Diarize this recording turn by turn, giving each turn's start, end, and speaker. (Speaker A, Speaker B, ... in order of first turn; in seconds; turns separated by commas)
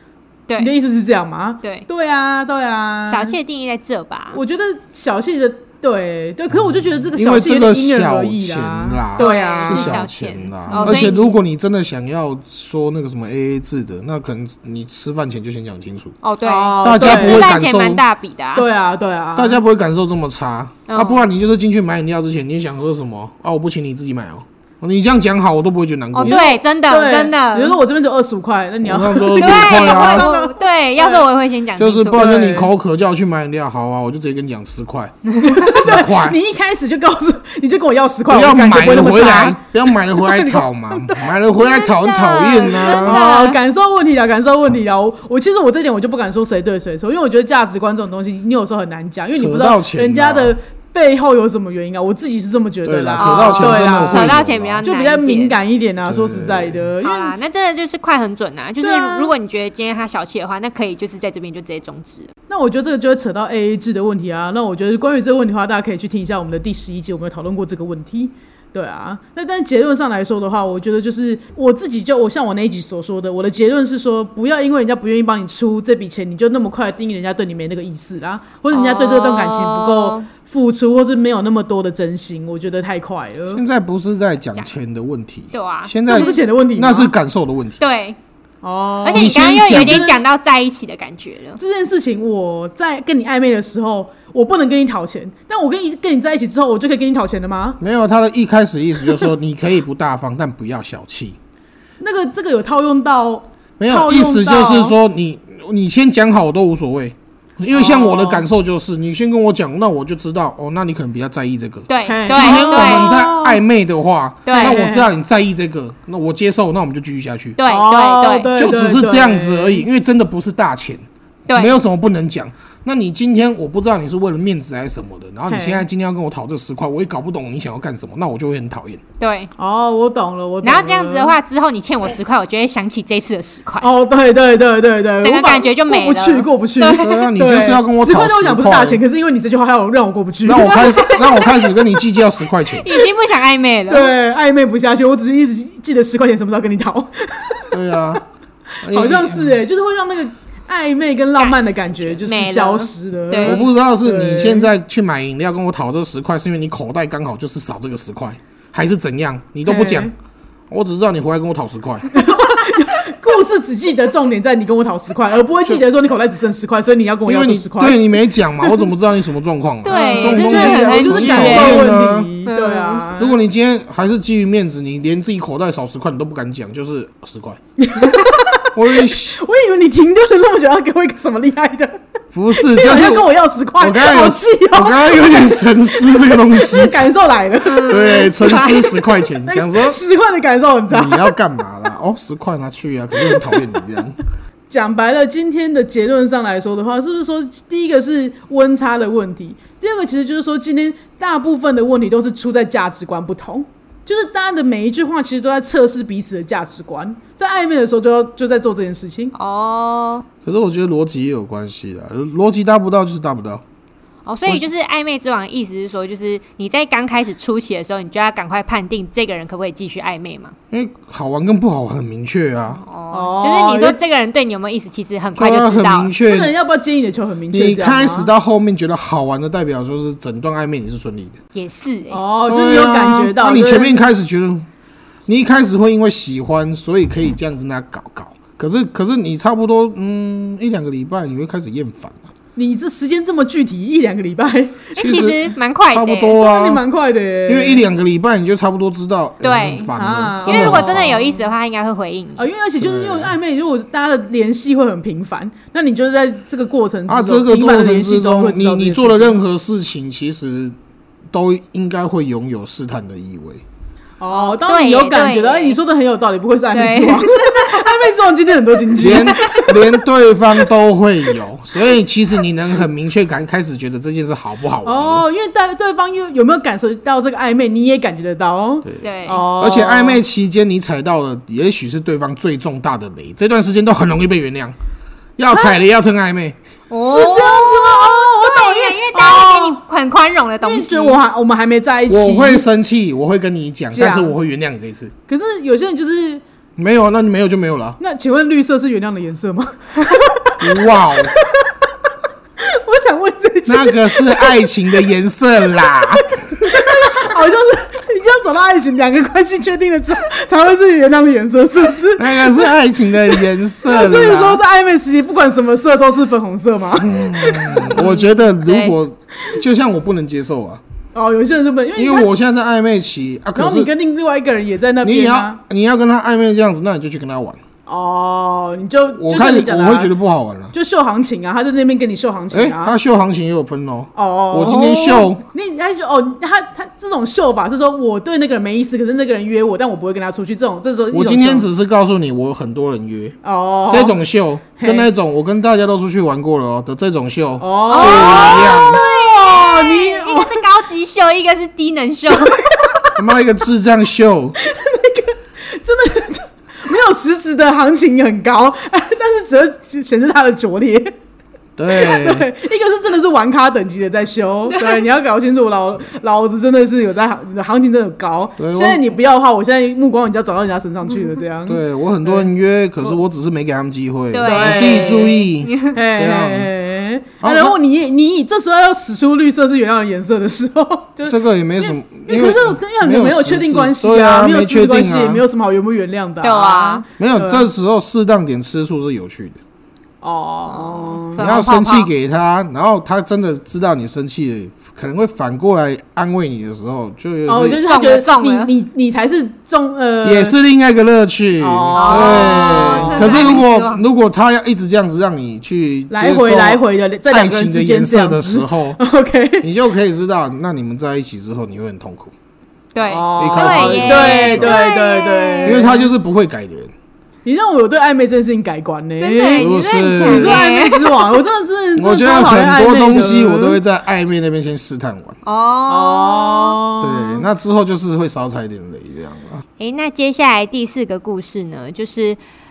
Speaker A: 0.5-0.7, Speaker B: 0.6-3.4, Speaker A: 3.1-4.4, Speaker B: 4.3-10.0, Speaker C: 7.1-16.1, Speaker A: 9.2-11.3, Speaker B: 10.7-11.2, Speaker A: 16.2-18.6, Speaker B: 16.4-17.5, Speaker C: 16.8-18.0, Speaker B: 18.5-19.6, Speaker C: 19.4-26.4, Speaker A: 20.9-21.2, Speaker A: 26.1-27.8, Speaker B: 26.2-31.2, Speaker C: 28.8-30.3, Speaker A: 29.4-32.4, Speaker C: 31.8-36.4, Speaker B: 32.1-32.7, Speaker B: 35.4-41.3, Speaker C: 38.3-43.2, Speaker A: 41.5-43.6, Speaker B: 42.9-57.3, Speaker C: 49.3-50.5, Speaker C: 52.8-54.8, Speaker A: 53.2-55.6, Speaker C: 56.0-56.8, Speaker A: 57.0-62.3, Speaker B: 58.8-59.3, Speaker B: 62.5-83.6, Speaker A: 78.7-80.3, Speaker C: 83.5-87.8, Speaker A: 85.5-86.4, Speaker B: 86.0-87.1, Speaker A: 87.8-88.2, Speaker B: 88.6-90.2, Speaker A: 89.0-91.6, Speaker C: 89.1-90.1, Speaker B: 91.6-97.8, Speaker C: 97.8-101.4, Speaker B: 102.0-105.0, Speaker C: 103.8-117.6, Speaker B: 107.7-108.4, Speaker A: 111.9-113.2, Speaker B: 112.0-113.6, Speaker A: 114.5-114.8, Speaker B: 114.5-115.1, Speaker A: 117.6-118.5, Speaker B: 117.6-119.8, Speaker C: 118.5-129.0, Speaker A: 121.5-121.8, Speaker B: 125.5-125.8, Speaker A: 129.2-129.5, Speaker B: 129.6-131.3, Speaker A: 130.6-133.9, Speaker B: 133.8-141.5, Speaker A: 135.2-137.2, Speaker C: 136.9-139.0, Speaker C: 140.4-142.9, Speaker A: 140.7-141.6, Speaker A: 142.6-144.1, Speaker B: 143.9-148.2, Speaker C: 147.7-148.2, Speaker C: 148.8-149.6, Speaker B: 148.9-154.7, Speaker A: 151.4-153.6, Speaker C: 153.4-160.1, Speaker B: 159.7-160.1, Speaker C: 160.7-162.1, Speaker B: 162.1-168.1, Speaker C: 167.2-172.3, Speaker A: 169.8-171.8, Speaker B: 169.9-173.4, Speaker A: 172.4-173.1, Speaker C: 173.2-177.6, Speaker B: 177.8-182.0, Speaker C: 178.7-179.4, Speaker C: 182.3-183.3, Speaker B: 182.5-191.3, Speaker C: 183.8-187.0, Speaker A: 187.7-188.8, Speaker C: 187.8-190.0, Speaker C: 190.9-194.2, Speaker B: 193.2-193.6, Speaker B: 194.7-209.3, Speaker A: 209.3-210.2, Speaker C: 210.4-213.6, Speaker A: 214.2-220.5, Speaker C: 220.7-222.8, Speaker A: 222.8-226.1, Speaker B: 223.1-224.0, Speaker C: 225.3-226.5, Speaker B: 226.2-228.3, Speaker C: 227.5-231.4, Speaker A: 231.5-232.2, Speaker B: 232.1-234.1, Speaker C: 232.5-234.7, Speaker C: 235.3-242.3, Speaker B: 242.6-245.3, Speaker A: 245.0-246.4, Speaker C: 245.0-246.8, Speaker B: 246.4-247.8, Speaker C: 247.5-251.2, Speaker A: 249.4-249.9, Speaker B: 249.9-251.4, Speaker A: 250.4-252.5, Speaker B: 252.4-259.4, Speaker C: 252.8-253.3, Speaker C: 257.1-260.8, Speaker C: 261.3-263.6, Speaker B: 264.2-270.0, Speaker A: 264.3-265.8, Speaker A: 266.7-268.1, Speaker C: 269.0-275.2, Speaker B: 274.8-280.2, Speaker C: 278.8-284.7, Speaker A: 279.0-279.5, Speaker C: 285.4-286.6, Speaker A: 286.9-291.2, Speaker B: 287.0-289.8, Speaker B: 290.6-292.6, Speaker C: 292.1-295.1, Speaker B: 293.9-294.3, Speaker B: 295.3-296.4, Speaker C: 296.8-298.0, Speaker B: 298.0-301.9, Speaker C: 300.6-301.3, Speaker B: 302.6-304.7, Speaker C: 303.7-306.9, Speaker B: 305.9-312.7, Speaker C: 312.2-314.6, Speaker B: 313.3-318.2, Speaker C: 317.0-320.8, Speaker A: 317.6-318.9, Speaker B: 321.1-322.3, Speaker C: 321.9-323.9, Speaker B: 323.5-325.6, Speaker C: 325.0-327.6, Speaker B: 327.9-330.1, Speaker C: 329.1-330.7, Speaker B: 330.7-332.9, Speaker C: 332.5-335.4, Speaker B: 334.1-341.7, Speaker C: 341.1-343.4, Speaker B: 343.4-344.2, Speaker C: 343.9-349.0, Speaker B: 344.8-345.1, Speaker B: 347.6-350.6, Speaker A: 347.9-352.6, Speaker B: 352.4-353.1, Speaker C: 353.1-354.6, Speaker B: 354.6-361.1, Speaker C: 361.8-362.5, Speaker B: 361.9-372.5, Speaker A: 364.7-365.0, Speaker C: 368.6-369.0, Speaker C: 371.7-376.7, Speaker A: 374.3-376.0, Speaker B: 374.4-387.7, Speaker C: 377.4-377.7, Speaker C: 381.3-385.4, Speaker A: 386.4-387.0, Speaker C: 387.2-389.6, Speaker B: 390.2-391.4, Speaker A: 390.7-392.1, Speaker C: 391.4-397.8, Speaker B: 397.5-400.6, Speaker A: 397.8-398.7, Speaker C: 400.2-409.0, Speaker B: 401.6-403.6, Speaker A: 401.9-404.0, Speaker B: 406.1-409.7, Speaker C: 409.6-412.3, Speaker A: 412.9-415.9, Speaker B: 413.0-416.1, Speaker C: 413.4-414.8, Speaker C: 415.6-416.9, Speaker B: 417.4-423.8, Speaker A: 419.2-421.4, Speaker C: 419.6-420.6, Speaker C: 422.0-425.4, Speaker A: 425.4-426.8, Speaker B: 425.9-427.4, Speaker C: 427.0-429.6, Speaker A: 429.8-432.4